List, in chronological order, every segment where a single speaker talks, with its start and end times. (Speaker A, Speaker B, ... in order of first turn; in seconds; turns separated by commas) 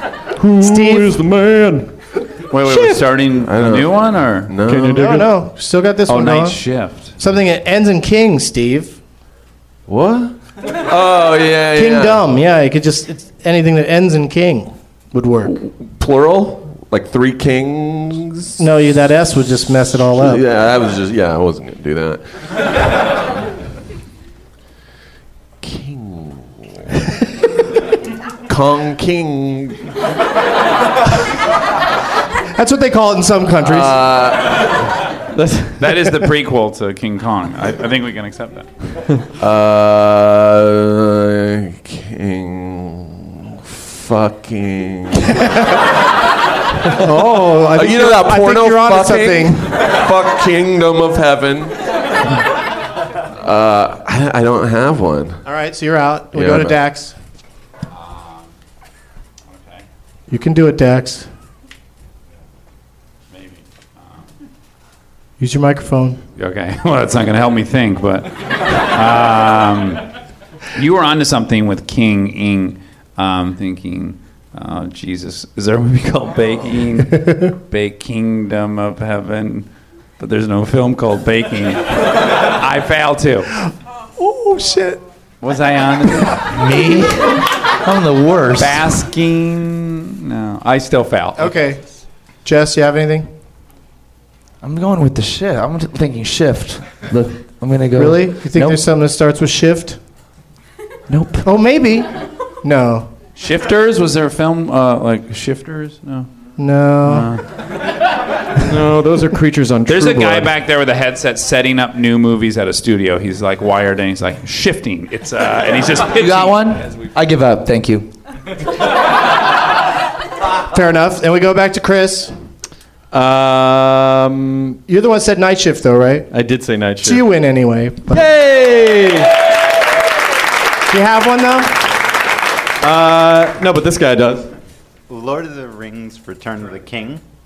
Speaker A: 0.4-1.9, Speaker B: 0.6-1.2, Speaker C: 2.5-4.5, Speaker A: 2.6-3.1, Speaker D: 3.4-5.1, Speaker A: 4.6-5.3, Speaker B: 4.9-6.6, Speaker C: 6.1-7.1, Speaker B: 7.2-8.9, Speaker D: 9.9-12.2, Speaker B: 11.7-15.6, Speaker D: 15.5-18.6, Speaker B: 18.6-20.4, Speaker D: 20.1-22.2, Speaker D: 25.6-26.7, Speaker D: 28.5-29.8, Speaker B: 32.5-34.0, Speaker D: 33.6-34.8, Speaker A: 35.3-36.3, Speaker C: 35.8-38.7, Speaker D: 39.4-45.4, Speaker B: 46.9-49.9, Speaker D: 47.7-51.8, Speaker D: 53.4-55.4, Speaker B: 55.5-57.1, Speaker D: 56.3-56.8, Speaker C: 57.9-58.5, Speaker C: 59.5-59.8, Speaker B: 60.3-61.3, Speaker C: 63.3-64.2, Speaker B: 65.4-66.2, Speaker C: 66.4-70.1, Speaker C: 70.7-79.7, Speaker C: 80.2-83.5, Speaker B: 84.2-85.0, Speaker C: 85.4-86.5, Speaker E: 86.5-88.9, Speaker C: 88.5-91.5, Speaker B: 91.4-91.8, Speaker B: 92.4-93.3, Speaker E: 94.6-98.8, Speaker B: 98.0-100.0, Speaker E: 101.1-101.5, Speaker B: 101.4-102.1, Speaker B: 102.6-103.1, Speaker C: 103.3-106.3, Speaker B: 106.6-107.3, Speaker C: 107.0-107.4, Speaker A: 108.6-110.5, Speaker C: 109.9-117.1, Speaker E: 116.2-118.1, Speaker B: 120.7-122.3, Speaker A: 123.1-124.8, Speaker B: 124.9-126.3, Speaker A: 126.3-127.2, Speaker B: 127.0-128.3, Speaker A: 128.1-129.3, Speaker B: 130.9-131.8, Speaker A: 132.8-134.5, Speaker F: 135.1-137.2